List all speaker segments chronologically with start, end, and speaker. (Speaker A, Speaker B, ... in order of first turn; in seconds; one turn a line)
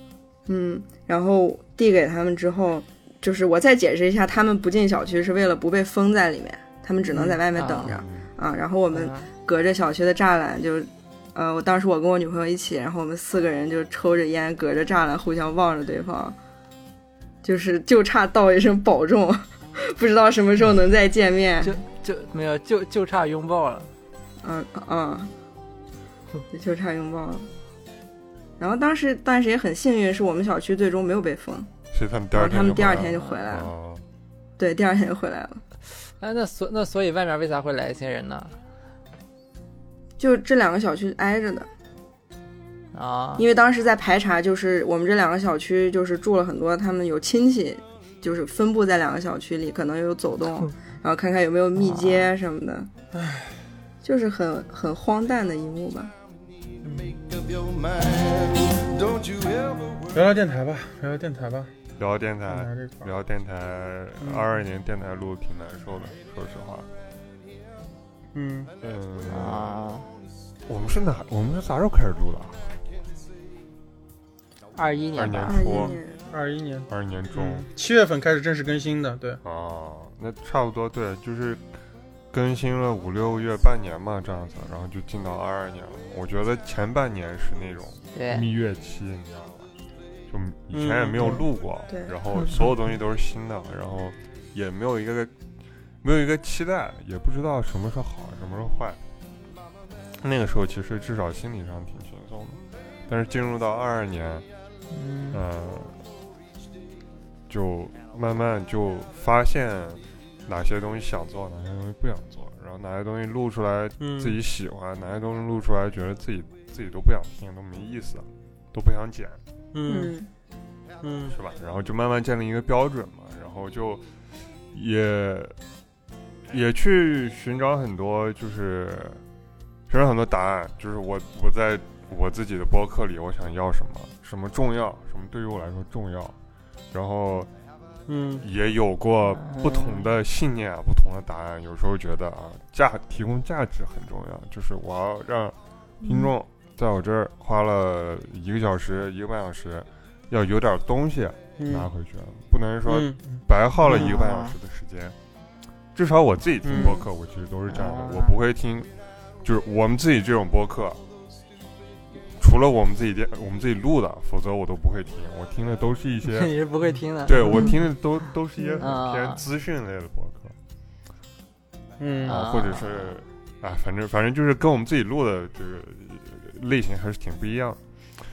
Speaker A: 0.5-16.4
Speaker B: 7.1-8.0
Speaker C: 7.8-8.3
Speaker B: 8.9-9.3
Speaker A: 17.4-21.8
Speaker B: 21.6-23.9
Speaker A: 24.4-25.3
Speaker A: 26.5-27.5
Speaker A: 28.6-31.7
Speaker C: 31.9-34.0
Speaker A: 32.3-33.7
Speaker A: 34.6-35.6
Speaker B: 36.2-38.6
Speaker A: 40.2-41.7
Speaker B: 42.9-43.5
Speaker A: 43.4-52.9
Speaker B: 51.8-52.3
Speaker D: 53.1-53.5
Speaker A: 54.0-56.1
Speaker D: 56.8-57.1
Speaker E: 56.9-60.3
Speaker D: 60.1-61.7
Speaker C: 62.0-66.9
Speaker D: 62.5-63.1
Speaker D: 64.2-64.6
Speaker D: 68.3-68.7
Speaker C: 68.8-69.7
Speaker B: 69.3-70.1
Speaker C: 70.7-72.8
Speaker B: 74.7-75.7
Speaker C: 75.1-76.0
Speaker A: 75.5-76.2
Speaker D: 75.7-79.4
Speaker C: 76.9-77.7
Speaker C: 79.4-81.6
Speaker C: 82.3-89.7
Speaker B: 88.1-88.5
Speaker C: 90.3-95.3
Speaker D: 90.7-91.4
Speaker A: 91.9-92.1
Speaker C: 96.0-99.0
Speaker C: 100.2-104.5
Speaker B: 104.9-105.4
Speaker C: 105.3-106.0
Speaker C: 107.5-119.4
Speaker D: 114.0-114.4
Speaker D: 119.7-120.1
Speaker A: 119.9-120.3
Speaker D: 121.0-121.3
Speaker C: 121.3-124.1
Speaker C: 124.7-125.5
Speaker C: 126.5-129.2
Speaker C: 129.9-136.3
Speaker C: 136.9-137.5
Speaker D: 138.1-138.4
Speaker C: 138.4-155.1
Speaker B: 139.3-140.1
Speaker D: 151.6-151.9
Speaker D: 152.8-154.1
Speaker B: 153.8-154.6
Speaker C: 155.9-158.9
Speaker D: 156.6-156.9
Speaker A: 156.7-157.0
Speaker B: 157.7-158.3
Speaker C: 159.4-161.0
Speaker C: 162.4-166.5
Speaker B: 166.2-167.8
Speaker C: 167.2-170.6
Speaker B: 168.8-169.4
Speaker D: 172.0-172.4
Speaker B: 172.2-173.1
Speaker C: 172.2-177.8